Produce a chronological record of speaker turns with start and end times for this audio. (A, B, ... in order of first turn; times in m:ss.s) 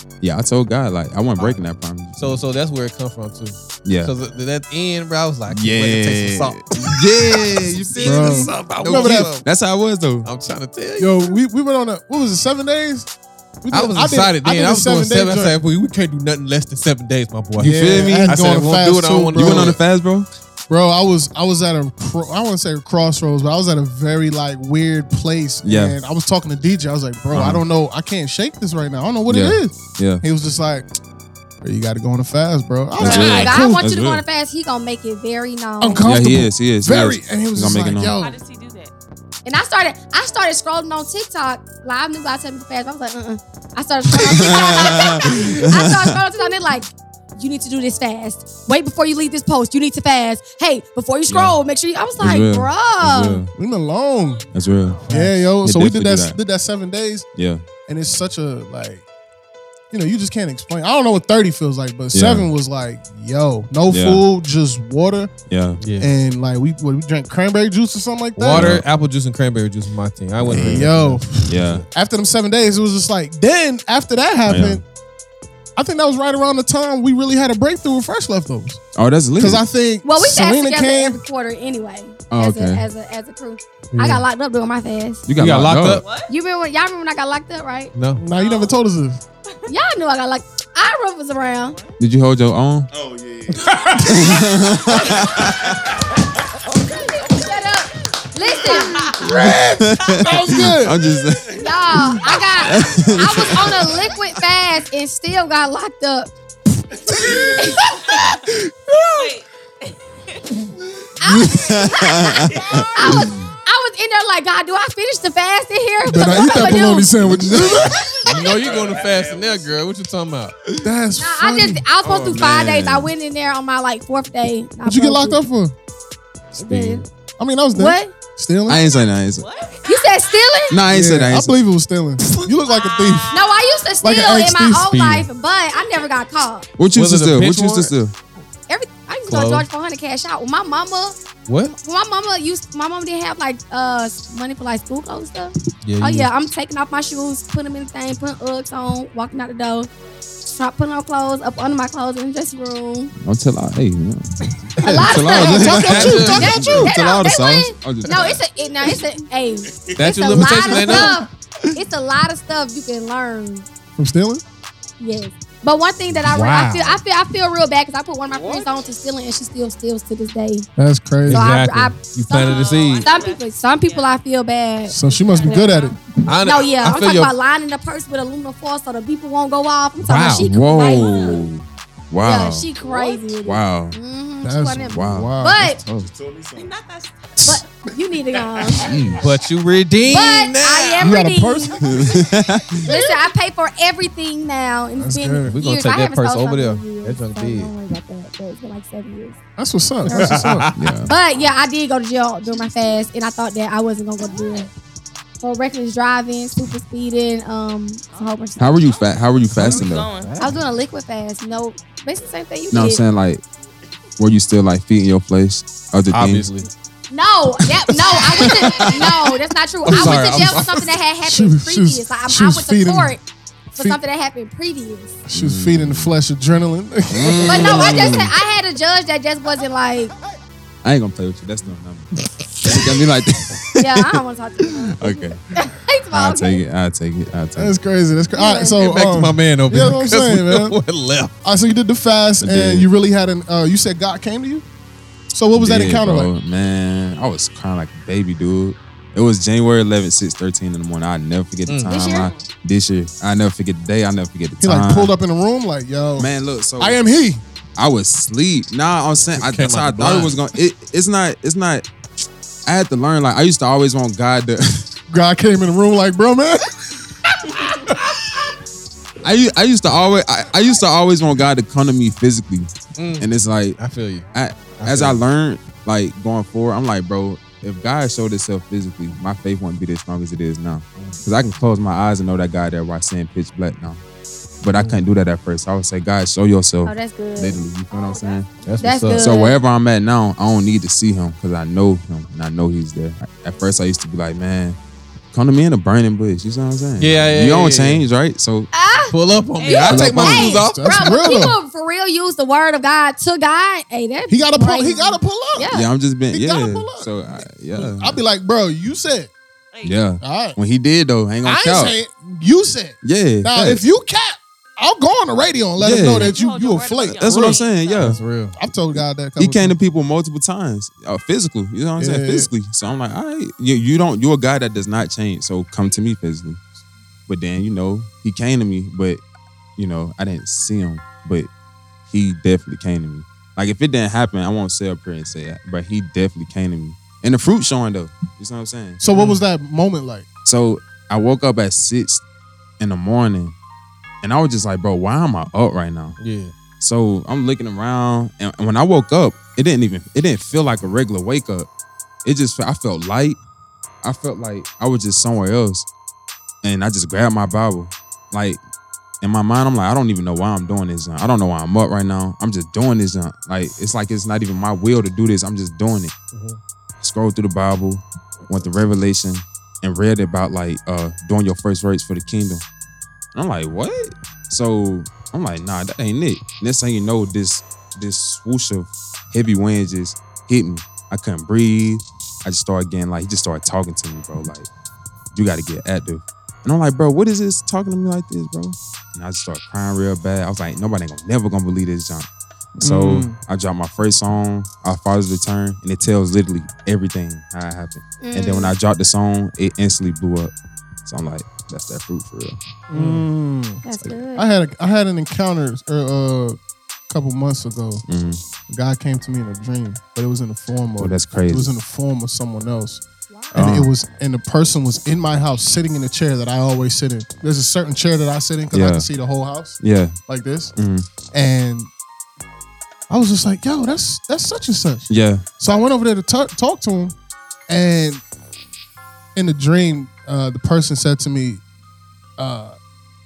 0:00.2-0:02.4 A
0:01.4-0:01.6 B
0:02.2-0:09.4 B
0:03.8-0:04.1 A
0:05.5-0:10.3 A
0:08.0-0:09.3 C
0:10.2-0:11.3 B
0:11.0-0:13.1 C
0:13.6-0:15.6 C
0:13.7-0:19.8 B
0:17.6-0:19.8 C
0:17.6-0:18.4 A
0:19.3-0:20.3 A
0:20.7-0:30.9 C
0:25.6-0:26.0 A
0:27.3-0:27.6 A
0:29.3-0:30.2 A
0:31.6-0:33.8 C
0:33.0-0:34.2 A
0:33.0-0:36.1 D
0:35.8-0:38.4 C
0:36.0-0:38.1 A
0:38.2-0:38.9 E
0:39.4-0:53.4 D
0:44.1-0:46.2 A
0:51.3-0:51.6 A
0:52.2-0:53.5 A
0:53.6-0:54.4 C
0:54.2-0:55.1 E
0:54.5-0:56.4 A
0:55.0-0:57.2 C
0:55.1-0:55.4 B
0:57.4-0:57.6 A
0:57.9-0:59.0 C
0:59.9-1:05.3 C
1:02.1-1:02.5 A
1:03.9-1:04.2 A
1:05.5-1:05.8 A
1:05.8-1:06.1 B
1:06.0-1:08.7 C
1:08.4-1:11.8 B
1:08.5-1:08.8 A
1:10.4-1:14.8 C
1:10.5-1:10.9 A
1:11.4-1:11.8 A
1:14.5-1:14.8 A
1:15.8-1:18.8 C
1:18.9-1:19.6 A
1:19.4-1:21.2 C
1:20.0-1:25.2 D
1:22.3-1:22.8 A
1:23.9-1:24.2 B
1:25.3-1:26.0 A
1:25.4-1:26.0 B
1:25.9-1:26.3 E
1:26.3-1:27.9 D
1:27.9-1:28.2 B
1:28.2-1:29.2 C
1:28.3-1:28.8 E
1:29.7-1:31.8 D
1:31.6-1:32.0 E
1:32.0-1:32.9 A
1:32.9-1:34.8 F
1:34.0-1:35.7 A
1:36.9-1:39.0 D
1:38.9-1:39.2 E
1:38.9-1:41.0 C
1:39.2-1:44.0 A
1:41.5-1:46.3 D
1:47.6-1:47.8 D
1:47.8-1:48.4 E
1:48.9-1:49.3 C
1:49.2-1:50.7 E
1:51.2-1:57.1 D
1:51.2-1:53.4 A
1:52.5-1:53.1 E
1:56.0-1:58.1 C
1:57.2-1:58.1 A
1:58.2-2:00.5 B
1:58.4-1:59.8 F
2:00.8-2:01.8 C
2:01.2-2:05.4 D
2:02.0-2:03.1 A
2:04.8-2:05.7 C
2:06.5-2:07.0 D
2:06.6-2:07.0 A
2:07.4-2:08.8 C
2:07.7-2:08.1 D
2:08.7-2:09.5 A
2:09.4-2:10.4 E
2:09.8-2:10.8 D
2:10.7-2:11.5 A
2:10.9-2:13.3 C
2:12.6-2:14.0 E
2:13.3-2:16.6 D
2:14.0-2:15.2 C
2:16.8-2:18.1 A
2:16.9-2:17.9 B
2:18.7-2:29.9 D
2:19.3-2:19.7 B
2:21.5-2:21.7 B
2:25.8-2:26.3 B
2:30.4-2:33.1 D
2:33.2-2:38.4 A
2:34.8-2:36.9 B
2:34.8-2:43.7 D
2:35.3-2:36.7 C
2:40.0-2:41.2 B
2:40.4-2:41.2 C
2:44.0-2:44.4 C
2:45.0-2:50.7 D
2:46.2-2:47.0 B
2:50.8-2:51.5 C
2:51.2-2:53.1 B
2:51.3-2:55.8 D
2:52.3-2:54.2 E
2:54.9-2:56.0 C
2:54.9-2:56.0 E
2:56.3-2:57.3 B
2:56.4-3:01.4 D
3:00.0-3:00.5 B
3:00.4-3:02.7 A
3:00.8-3:01.4 E
3:02.2-3:05.8 D
3:02.8-3:03.3 E
3:03.4-3:04.0 A
3:04.4-3:05.8 C
3:04.9-3:06.1 A
3:06.0-3:06.7 F
3:06.5-3:07.6 E
3:07.4-3:08.9 D
3:08.8-3:09.3 A
3:09.2-3:10.9 B
3:10.1-3:11.8 D
3:10.8-3:11.2 E
3:11.0-3:12.1 C
3:11.8-3:12.9 A
3:12.8-3:19.4 D
3:15.0-3:15.6 C
3:15.5-3:17.7 B
3:19.6-3:20.7 C
3:20.0-3:24.7 D
3:20.1-3:20.9 B
3:20.7-3:21.1 A
3:25.4-3:28.8 D
3:28.1-3:30.5 E
3:28.6-3:30.1 A
3:29.6-3:30.5 B
3:30.4-3:33.0 D
3:32.7-3:33.4 A
3:34.2-3:36.5 A
3:36.1-3:36.7 B
3:37.1-3:43.2 D
3:38.1-3:38.8 B
3:39.8-3:40.9 B
3:41.2-3:43.2 C
3:43.7-3:45.2 D
3:45.2-3:48.1 C
3:45.3-3:46.1 A
3:47.1-3:48.3 A
3:47.4-3:50.1 D
3:50.8-3:54.2 A
3:53.8-3:56.6 D
3:54.8-3:55.4 A
3:56.1-3:57.7 A
3:57.6-4:00.8 C
3:58.3-3:58.8 D
3:58.7-4:01.3 B
4:01.4-4:04.6 C
4:02.4-4:02.9 A
4:05.3-4:06.3 C
4:05.5-4:15.1 A
4:11.7-4:11.9 B
4:11.8-4:12.3 D
4:12.1-4:12.5 E
4:14.6-4:17.4 C
4:16.2-4:17.0 A
4:17.8-4:21.8 A
4:19.3-4:20.4 B
4:22.6-4:24.9 A
4:25.1-4:28.3 C
4:29.2-4:33.8 A
4:33.0-4:35.2 B
4:34.3-4:44.0 A
4:44.6-4:48.5 A
4:44.8-4:45.0 B
4:46.8-4:49.6 D
4:48.6-4:49.3 B
4:49.1-4:54.8 A
4:55.3-4:58.7 A
4:57.0-4:58.0 B
4:58.7-5:05.9 D
4:59.1-5:01.2 B
4:59.6-5:00.0 E
4:59.8-5:00.6 A
5:00.6-5:01.6 C
5:04.3-5:09.3 C
5:05.7-5:08.2 A
5:09.7-5:10.1 E
5:09.8-5:12.0 A
5:10.2-5:10.6 C
5:11.4-5:17.6 C
5:13.0-5:13.8 A
5:15.8-5:16.4 A
5:16.0-5:18.2 E
5:17.1-5:18.2 A
5:18.0-5:18.6 B
5:18.5-5:19.8 C
5:18.9-5:26.6 A
5:22.0-5:22.5 C
5:27.3-5:29.2 A
5:29.8-5:31.5 A
5:32.1-5:39.0 A
5:39.0-5:40.2 C
5:39.1-5:39.4 B
5:40.4-5:42.2 A
5:42.8-5:43.5 A
5:44.2-5:46.2 A
5:46.2-5:46.5 B
5:46.8-5:51.7 A
5:52.2-5:53.4 A
5:54.0-5:55.9 A
5:56.6-5:58.6 A
5:59.2-6:06.1 A
6:06.3-6:06.6 B
6:07.0-6:12.6 A
6:13.3-6:24.7 A
6:25.3-6:40.5 A
6:32.8-6:33.4 C
6:38.2-6:38.7 D
6:41.0-6:42.6 A
6:42.9-6:43.3 B
6:42.9-6:46.6 C
6:43.8-6:44.5 D
6:47.1-6:48.0 C
6:48.1-6:48.4 A
6:48.7-7:00.7 C
6:51.0-6:51.7 A
6:53.5-6:53.9 A
6:58.7-6:59.1 A
6:59.8-7:00.2 A
7:00.8-7:01.1 A
7:01.3-7:01.9 C
7:03.1-7:07.1 C
7:05.1-7:05.4 A
7:07.7-7:08.2 C
7:09.3-7:11.6 C
7:12.4-7:12.8 C